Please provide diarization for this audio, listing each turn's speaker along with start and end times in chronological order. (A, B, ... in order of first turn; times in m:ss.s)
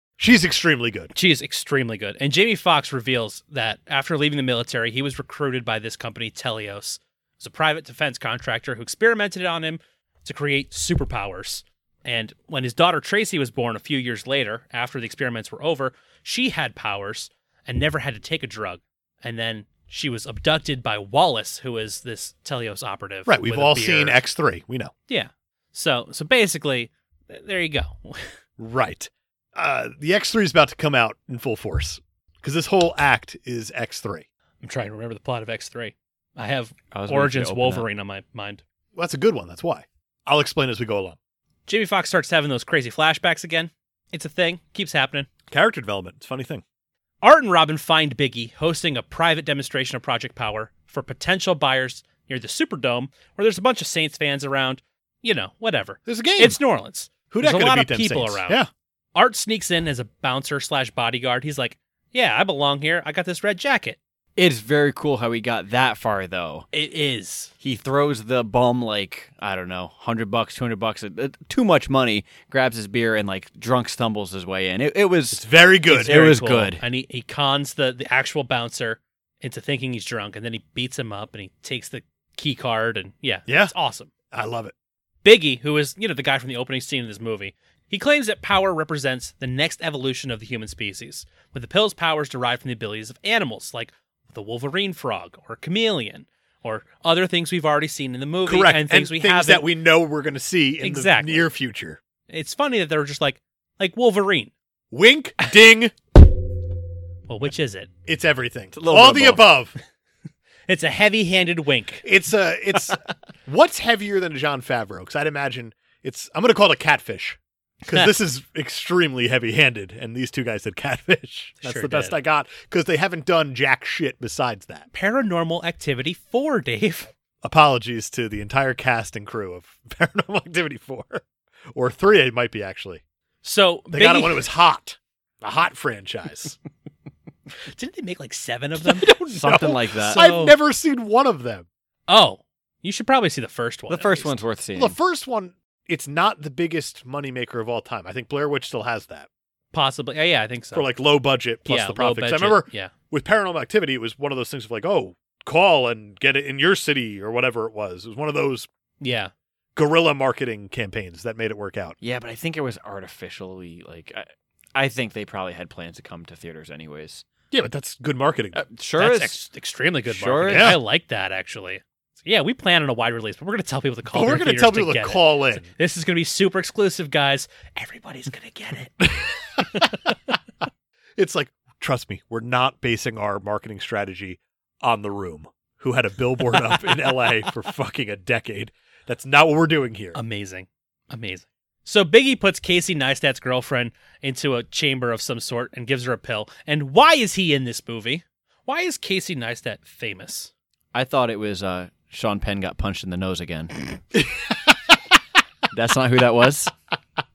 0:00.2-0:01.1 A
0:01.1-0:24.2 B
0:23.3-0:24.9 A
0:25.1-0:28.4 B
0:28.6-0:34.2 A
0:34.6-0:38.6 B
0:36.9-0:37.8 C
0:38.9-0:41.2 A
0:41.7-0:45.3 B
0:45.5-0:46.6 A
0:47.2-0:58.6 B
0:56.1-0:56.6 A
0:57.3-0:58.7 A
0:59.1-1:04.0 B
1:04.4-1:06.7 C
1:06.7-1:07.5 B
1:07.6-1:16.8 C
1:15.3-1:16.3 A
1:15.9-1:24.1 B
1:23.5-1:23.7 A
1:24.3-1:24.7 A
1:25.2-1:39.7 B
1:38.4-1:42.0 A
1:40.8-1:41.4 B
1:42.3-1:44.5 B
1:44.9-1:45.9 A
1:47.3-1:47.9 B
1:48.1-1:49.7 A
1:48.7-1:49.4 C
1:50.7-1:52.0 B
1:52.0-2:04.8 A
2:01.6-2:02.2 B
2:04.9-2:07.1 B
2:07.4-2:11.2 A
2:11.7-2:13.0 A
2:13.4-2:14.5 B
2:13.9-2:16.6 A
2:17.6-2:19.2 B
2:18.8-2:21.6 A
2:19.3-2:20.2 C
2:20.0-2:20.6 B
2:22.1-2:24.3 B
2:23.9-2:25.0 C
2:24.7-2:29.3 A
2:29.7-2:30.9 B
2:30.7-2:38.7 A
2:31.6-2:32.9 B
2:39.0-2:39.3 B
2:39.8-2:42.0 A
2:42.0-2:47.2 C
2:47.5-2:48.6 A
2:48.5-2:49.4 C
2:49.0-2:59.1 B
2:50.1-2:50.8 C
2:50.5-2:50.8 A
2:54.1-2:55.7 A
2:59.0-2:59.9 A
3:01.2-3:10.2 A
3:10.1-3:20.5 B
3:20.9-3:24.0 C
3:25.7-3:26.7 C